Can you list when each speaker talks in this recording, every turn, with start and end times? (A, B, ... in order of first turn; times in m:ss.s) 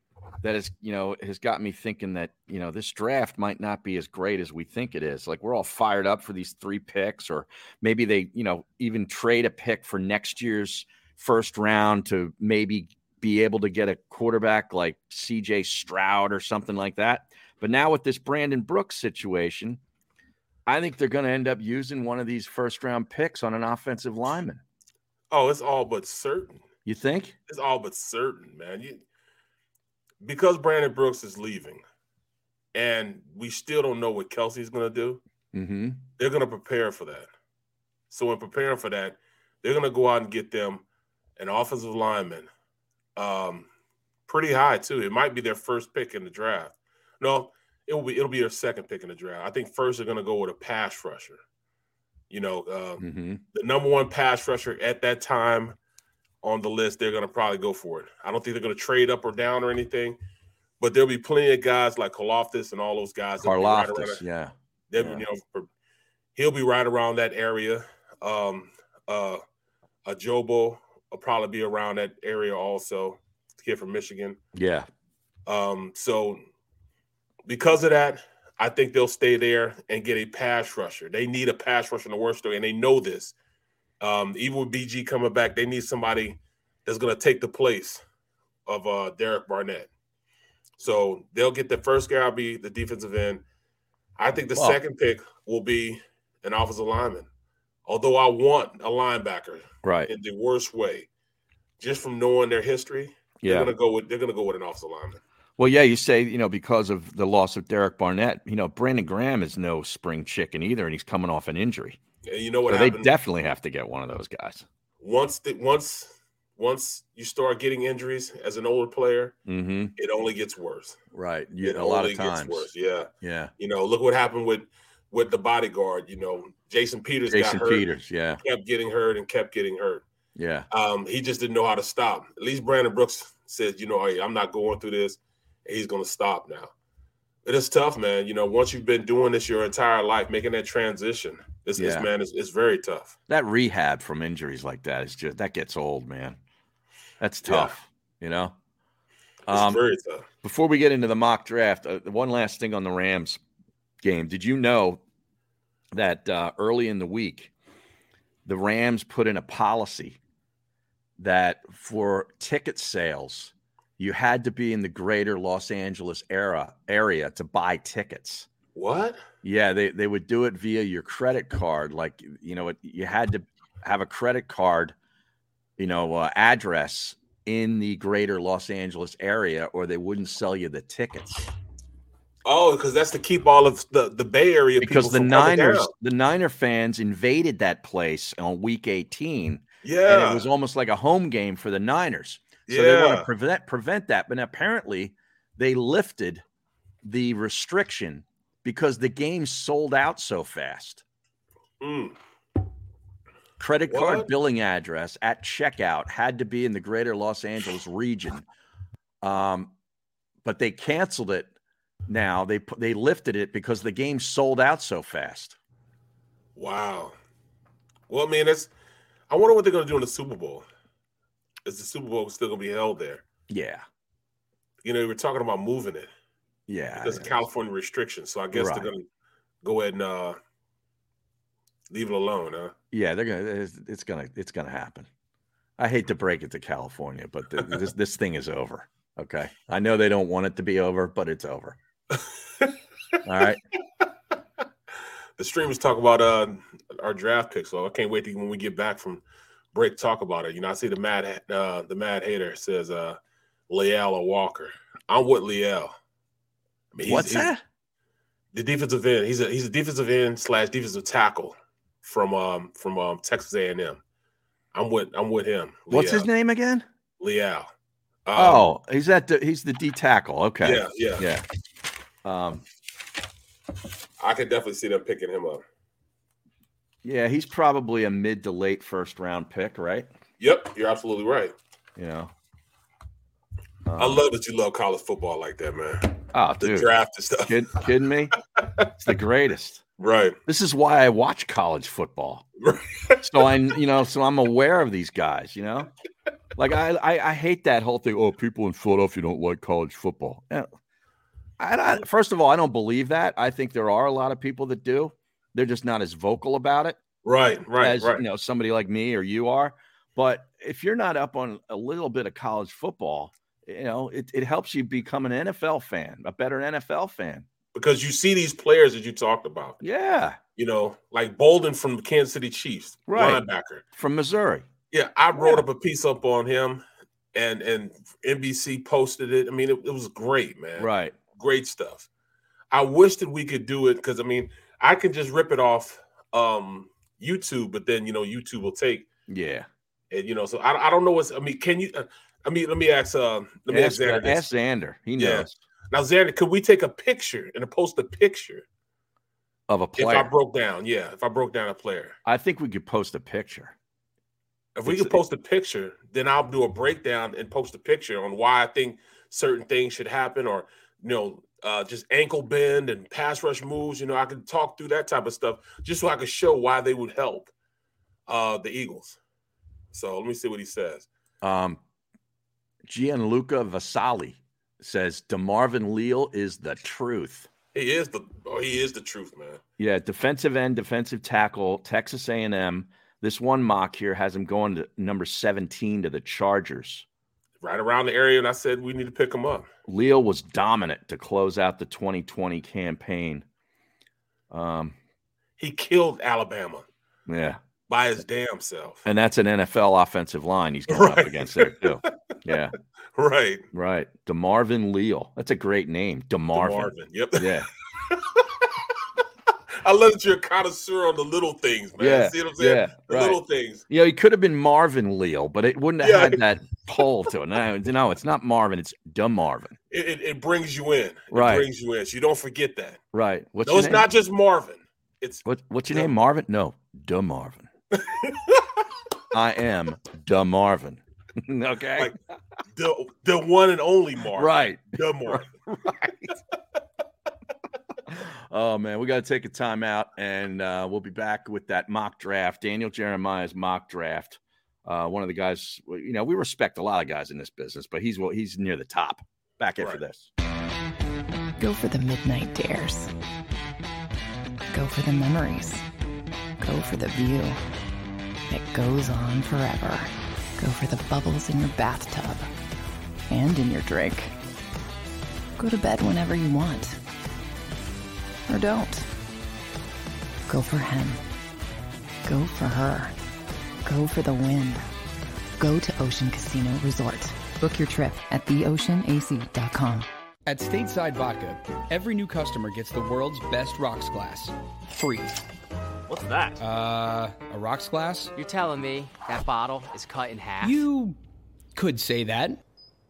0:00.4-0:19.8 A
0:20.6-0:24.6 A
0:25.3-0:26.6 B
0:26.8-0:27.3 A
0:27.5-0:29.0 B
0:30.2-0:31.8 B
0:32.7-0:35.2 B
0:35.5-0:36.0 A
0:36.2-0:37.3 B
0:38.1-0:40.8 B
0:41.4-0:42.5 B
0:43.2-0:43.7 B
0:44.3-0:51.4 B
0:52.3-0:55.7 B
0:53.0-0:53.4 A
0:56.4-1:00.2 B
1:00.8-1:04.2 B
1:03.4-1:05.2 A
1:04.9-1:05.7 B
1:06.3-1:09.4 B
1:10.0-1:14.4 B
1:14.5-1:14.9 A
1:15.5-1:16.4 B
1:17.5-1:23.3 B
1:24.0-1:28.0 B
1:28.6-1:29.9 B
1:30.8-1:33.4 B
1:34.2-1:37.3 B
1:37.8-1:41.1 B
1:39.8-1:40.1 A
1:41.8-1:45.2 B
1:43.4-1:43.7 A
1:45.6-1:52.0 A
1:52.2-1:53.1 B
1:52.7-1:54.6 A
1:55.0-1:59.3 B
1:59.4-1:59.9 A
2:00.0-2:01.0 B
2:01.1-2:02.7 A
2:01.6-2:07.9 B
2:03.2-2:03.5 A
2:07.3-2:08.4 A
2:08.4-2:10.0 B
2:10.3-2:10.7 A
2:10.7-2:16.7 B
2:17.4-2:23.1 B
2:21.8-2:22.1 A
2:23.3-2:26.4 A
2:27.2-2:28.5 A
2:27.4-2:27.7 B
2:29.5-2:29.8 A
2:29.5-2:30.2 B
2:30.4-2:33.4 A
2:34.0-2:35.0 A
2:35.9-2:37.5 A
2:38.4-2:40.2 A
2:41.2-2:48.5 A
2:48.7-2:49.2 B
2:49.4-2:54.9 A
2:55.8-3:01.4 A
3:02.4-3:05.9 B
3:04.8-3:16.4 A
3:09.8-3:10.5 B
3:12.7-3:13.3 B
3:17.0-3:21.0 A
3:21.8-3:22.2 B
3:23.6-3:28.4 A
3:23.9-3:24.3 B
3:29.2-3:29.7 A
3:30.4-3:31.5 A
3:32.1-3:35.6 A
3:36.6-3:37.1 B
3:38.1-3:38.7 B
3:39.3-3:40.6 B
3:41.6-3:43.2 B
3:43.5-3:43.8 A
3:44.8-3:46.1 B
3:46.7-3:47.3 A
3:47.0-3:49.0 B
3:48.5-3:48.9 A
3:49.6-3:50.4 B
3:51.9-3:52.7 B
3:52.9-3:55.1 A
3:55.8-4:01.8 A
4:03.2-4:03.6 A
4:05.4-4:09.2 B
4:09.7-4:13.2 B
4:13.7-4:15.9 B
4:16.9-4:17.5 B
4:17.0-4:17.6 A
4:18.5-4:24.0 B
4:24.7-4:26.3 B
4:25.9-4:26.8 A
4:27.2-4:27.7 B
4:28.2-4:28.7 B
4:28.3-4:31.4 A
4:30.6-4:31.2 B
4:32.2-4:32.6 A
4:34.2-4:35.6 B
4:37.0-4:40.1 A
4:40.4-4:41.5 B
4:42.0-4:42.3 A
4:43.8-4:44.2 A
4:44.0-4:47.5 B
4:46.3-4:46.9 A
4:47.4-4:48.3 A
4:49.0-4:49.8 A
4:50.0-4:50.4 B
4:50.5-4:52.5 A
4:52.6-4:53.4 B
4:53.2-4:55.9 A
4:56.6-5:00.7 A
5:01.6-5:07.0 A
5:07.2-5:08.2 B
5:07.8-5:17.4 A
5:17.7-5:19.8 B
5:19.8-5:20.4 A
5:20.6-5:23.8 B
5:23.1-5:24.6 A
5:24.9-5:26.8 B
5:25.3-5:25.6 A
5:27.3-5:32.1 B
5:30.8-5:31.1 A
5:32.7-5:39.0 B
5:39.3-5:39.7 A
5:40.1-5:44.4 B
5:43.7-5:45.6 A
5:45.2-5:48.6 B
5:49.7-5:50.3 A
5:50.0-5:52.2 B
5:52.2-5:53.7 A
5:54.8-6:07.5 B
5:54.8-5:55.2 A
6:08.3-6:09.2 B
6:09.9-6:11.1 B
6:11.4-6:11.8 A
6:12.8-6:17.5 A
6:17.7-6:19.6 B
6:19.8-6:27.0 A
6:27.6-6:29.7 B
6:29.9-6:33.4 A
6:34.5-6:35.0 A
6:35.6-6:36.8 B
6:37.3-6:37.6 A
6:37.9-6:39.0 B
6:39.0-6:42.7 A
6:40.9-6:42.1 B
6:43.2-6:43.6 B
6:43.7-6:47.7 A
6:46.5-6:47.5 B
6:48.1-6:48.5 B
6:49.8-6:53.8 B
6:52.0-6:59.8 A
6:56.0-6:56.4 B
6:59.9-7:03.0 B
7:01.3-7:01.7 A
7:03.1-7:04.1 A
7:03.6-7:06.1 B
7:05.4-7:07.7 A
7:07.9-7:08.8 B
7:09.3-7:12.1 A
7:12.7-7:15.5 B
7:14.3-7:16.3 A
7:18.1-7:30.3 A
7:31.6-7:33.1 C
7:34.7-7:35.8 C
7:36.6-7:37.6 C
7:38.5-7:42.5 C
7:43.3-7:44.3 C
7:45.6-7:47.0 C
7:48.5-7:49.1 C
7:50.5-7:51.2 C
7:52.2-7:53.1 C
7:53.8-7:54.8 C
7:55.6-8:00.1 C
8:00.4-8:05.4 D
8:06.1-8:06.6 E
8:06.6-8:08.3 D
8:08.4-8:10.8 E
8:10.6-8:11.2 D
8:11.7-8:12.6 D